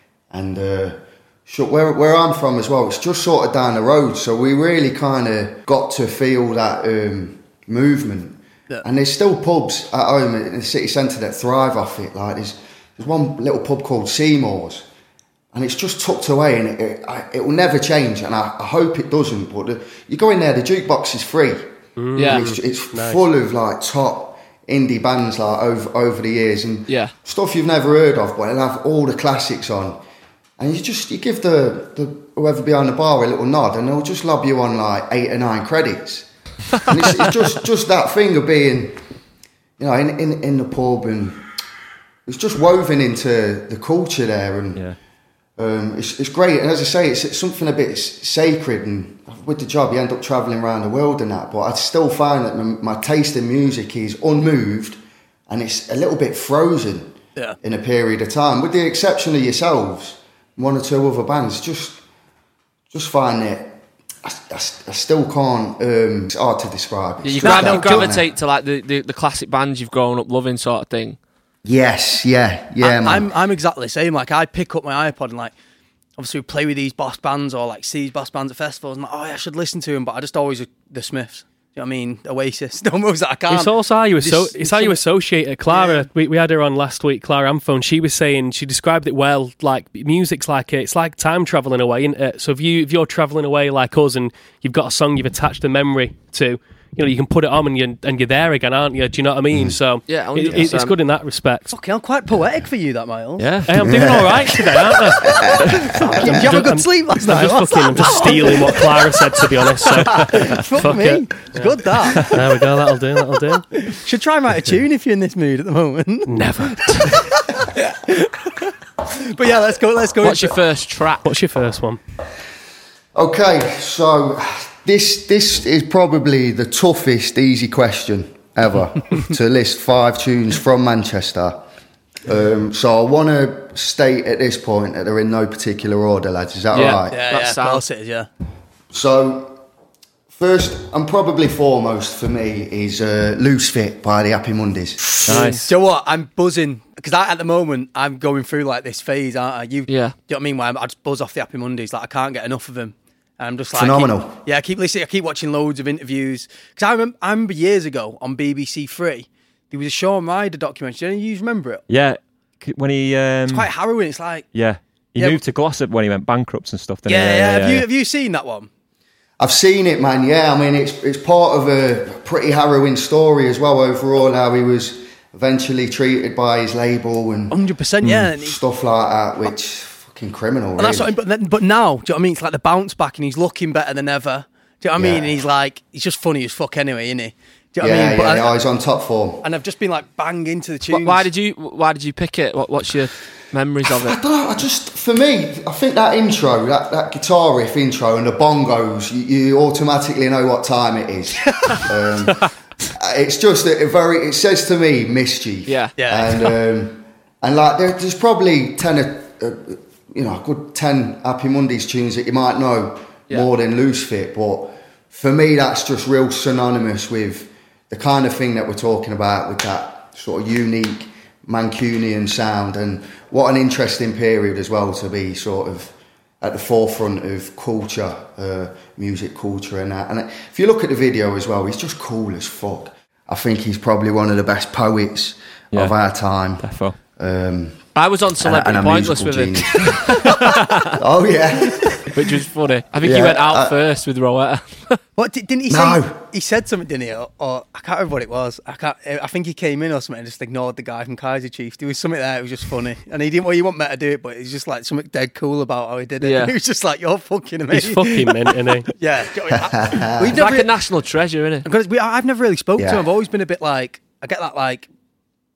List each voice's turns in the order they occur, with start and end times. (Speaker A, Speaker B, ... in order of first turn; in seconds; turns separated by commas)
Speaker A: 0.3-14.8, Speaker A: 15.5-21.7, Speaker B: 22.0-23.2, Speaker C: 22.1-22.5, Speaker A: 22.2-30.0, Speaker C: 26.9-27.1, Speaker A: 30.6-36.3, Speaker A: 36.9-39.0, Speaker A: 39.8-41.5, Speaker A: 42.2-44.8, Speaker A: 45.6-62.0, Speaker A: 62.9-68.3, Speaker C: 67.2-71.2, Speaker D: 67.4-68.1, Speaker A: 71.6-73.3, Speaker D: 72.8-75.5, Speaker D: 76.2-85.0, Speaker B: 83.5-101.7, Speaker D: 85.7-86.1, Speaker C: 100.1-101.0, Speaker D: 101.7-103.5, Speaker E: 103.4-104.2, Speaker B: 103.7-113.7, Speaker A: 103.8-104.6, Speaker A: 105.2-106.4, Speaker D: 105.6-109.1, Speaker D: 109.9-112.4, Speaker E: 110.1-110.6, Speaker D: 113.8-116.3, Speaker B: 116.3-117.2, Speaker D: 116.9-120.5, Speaker C: 120.2-121.3, Speaker B: 121.2-122.0, Speaker A: 123.1-131.6, Speaker A: 132.2-137.2, Speaker C: 136.7-137.8, Speaker D: 137.1-138.3, Speaker A: 138.9-139.6, Speaker A: 140.3-145.1, Speaker E: 145.2-145.7, Speaker C: 145.3-145.6, Speaker D: 145.4-161.8, Speaker C: 149.9-150.1, Speaker A: 153.7-154.4, Speaker E: 161.9-163.7, Speaker D: 163.5-164.5, Speaker E: 164.5-167.9, Speaker D: 165.2-165.4, Speaker D: 167.1-168.7, Speaker A: 169.4-181.1, Speaker D: 177.5-178.6, Speaker D: 180.8-188.5, Speaker A: 184.9-185.4, Speaker A: 187.8-189.4, Speaker D: 189.4-191.3, Speaker C: 190.9-194.2, Speaker A: 193.9-240.3, Speaker C: 205.7-205.9, Speaker D: 206.0-206.5, Speaker E: 236.6-237.0, Speaker C: 237.9-241.0, Speaker A: 241.0-242.1, Speaker C: 242.1-245.0, Speaker A: 243.0-243.8, Speaker D: 245.2-260.7, Speaker A: 245.7-246.2, Speaker C: 256.2-256.6, Speaker B: 257.7-258.9, Speaker A: 259.5-260.4, Speaker C: 260.2-261.7, Speaker D: 261.6-264.9, Speaker A: 262.8-263.1